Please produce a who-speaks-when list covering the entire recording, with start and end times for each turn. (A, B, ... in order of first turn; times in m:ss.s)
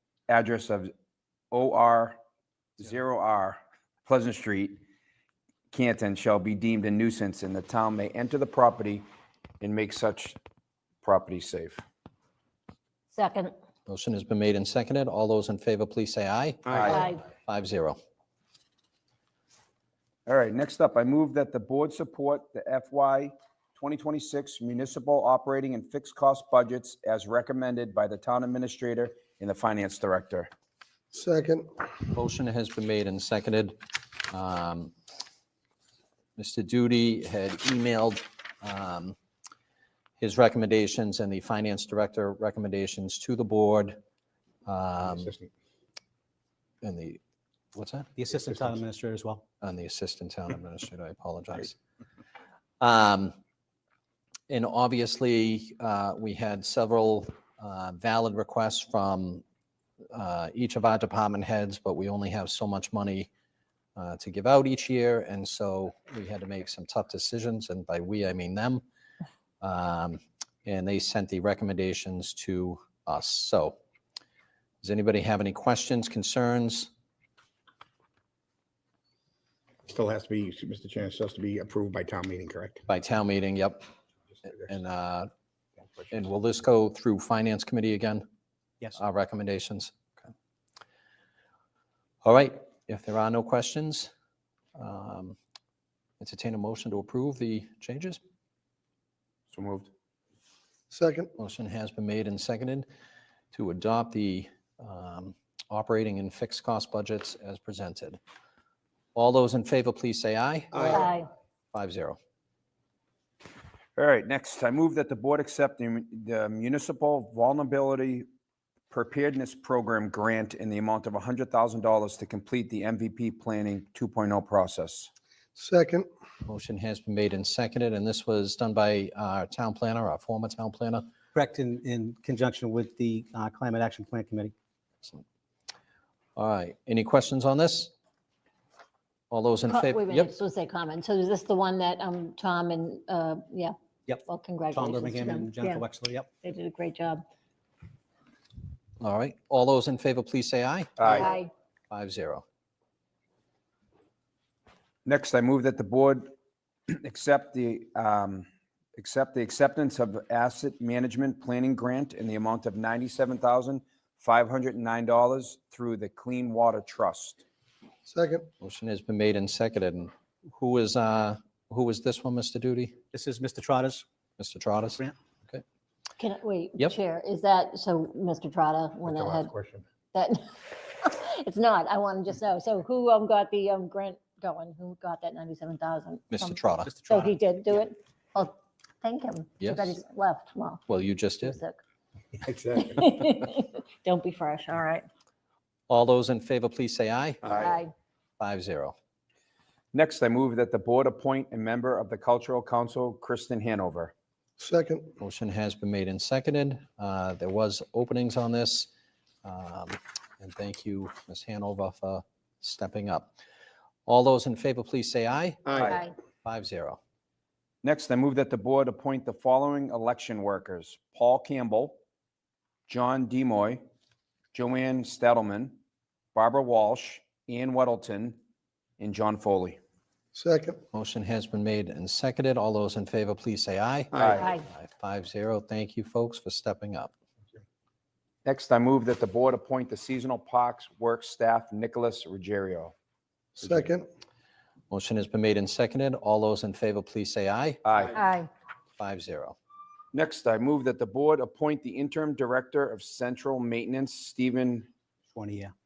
0:00.3-0:00.9 A
0:01.5-0:02.2 A
0:02.8-0:04.8 A
0:05.7-0:09.1 A
0:09.6-0:10.4 A
0:11.0-0:11.8 A
0:13.1-0:13.5 B
0:13.9-0:18.0 C
0:16.6-0:17.0 A
0:16.8-0:17.2 B
0:20.2-0:30.5 A
0:31.1-0:31.7 D
0:32.1-0:34.9 C
0:36.4-0:39.2 C
0:40.2-0:44.0 C
0:44.6-0:45.3 C
0:45.0-0:45.5 E
0:46.8-0:47.2 C
0:47.7-0:48.1 C
0:48.2-0:49.4 F
0:48.4-0:48.8 E
0:49.6-0:51.8 C
0:52.8-0:53.3 C
0:54.5-0:59.4 C
1:00.1-1:03.3 C
1:04.0-1:08.8 C
1:09.6-1:13.8 C
1:14.8-1:16.9 C
1:19.8-1:22.8 E
1:22.9-1:23.8 C
1:24.4-1:25.3 C
1:26.1-1:28.2 C
1:29.0-1:30.1 C
1:32.2-1:34.1 C
1:34.8-1:35.4 C
1:36.2-1:38.2 C
1:39.5-1:39.9 A
1:40.9-1:41.3 D
1:41.4-1:42.8 C
1:43.5-1:48.2 C
1:49.1-1:50.9 C
1:50.8-1:51.3 B
1:51.7-1:52.2 C
1:54.0-1:58.2 A
1:58.9-2:05.1 A
2:05.6-2:06.1 D
2:06.4-2:11.1 C
2:11.3-2:14.5 F
2:16.4-2:17.9 C
2:19.3-2:20.3 C
2:19.7-2:23.7 B
2:24.1-2:26.3 F
2:24.2-2:25.8 B
2:26.4-2:27.2 B
2:29.0-2:31.1 C
2:31.0-2:31.3 A
2:31.0-2:31.5 B
2:31.9-2:32.4 C
2:35.0-2:36.3 A
2:36.9-2:47.4 A
2:48.1-2:48.4 D
2:48.6-2:53.0 C
2:53.1-2:54.0 F
2:54.4-2:55.6 C
2:56.2-2:59.5 B
2:59.0-2:59.8 E
3:00.1-3:11.8 B
3:06.3-3:07.0 C
3:06.8-3:07.8 F
3:09.6-3:10.0 C
3:10.9-3:11.6 C
3:12.4-3:13.1 E
3:12.9-3:15.1 B
3:15.9-3:17.6 C
3:17.6-3:17.9 B
3:18.4-3:18.9 C
3:19.9-3:24.1 A
3:24.6-3:25.1 D
3:25.2-3:28.9 C
3:29.4-3:33.3 C
3:34.1-3:35.8 C
3:35.7-3:36.0 E
3:35.8-3:36.0 A
3:35.8-3:36.1 B
3:36.4-3:37.0 C
3:37.8-3:42.0 A
3:42.9-3:43.8 A
3:44.5-3:45.8 A
3:46.3-3:48.4 A
3:49.0-3:49.8 A
3:50.3-3:50.7 D
3:50.9-3:57.1 C
3:54.1-3:54.5 A
3:54.3-3:54.6 B
3:58.4-4:02.9 A
4:03.6-4:04.0 D
4:04.9-4:07.8 C
4:07.8-4:08.2 A
4:08.1-4:08.5 B
4:09.0-4:09.6 C
4:10.1-4:14.9 A
4:15.3-4:15.7 F